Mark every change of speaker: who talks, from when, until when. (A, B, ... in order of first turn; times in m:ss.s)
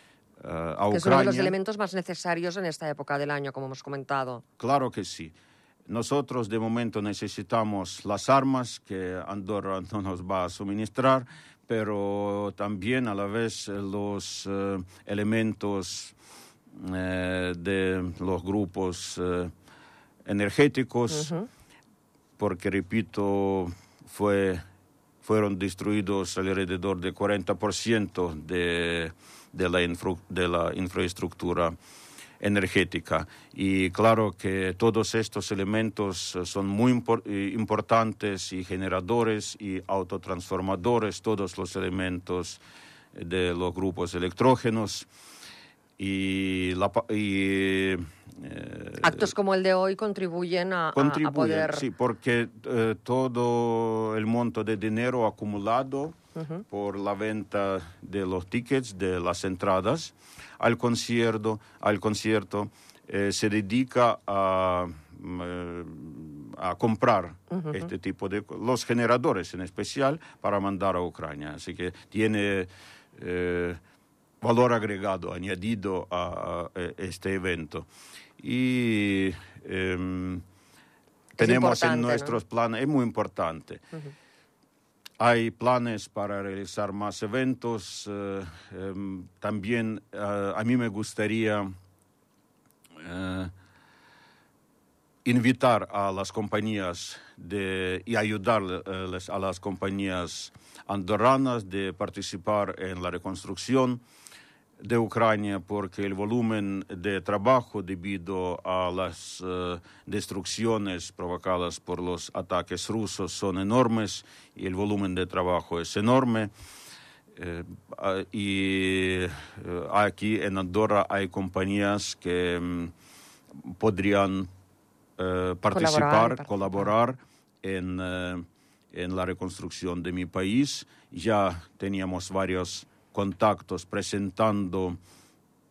0:00.4-0:01.6 A
0:00.9-0:04.4 B
0:04.6-0:05.4 A
0:05.9-0:16.2 A
0:16.8-0:19.5 A
0:20.3-0:21.3 A
0:21.1-0:21.5 B
0:22.4-0:24.6 A
0:25.2-0:31.8 A
0:32.4-0:42.6 A
0:43.1-0:45.1 A
0:46.0-0:49.3 A
0:49.0-0:51.8 B
0:50.9-0:56.2 A
0:56.7-1:13.8 A
1:14.4-1:17.9 A
1:18.4-1:20.4 A
1:21.4-1:23.8 A
1:21.4-1:22.4 B
1:25.2-1:31.7 A
1:33.0-1:33.5 A
1:35.2-1:44.0 A
1:44.8-1:56.5 A
1:57.4-2:02.9 A
2:03.6-2:04.5 A
2:05.2-2:15.0 A
2:05.7-2:06.9 B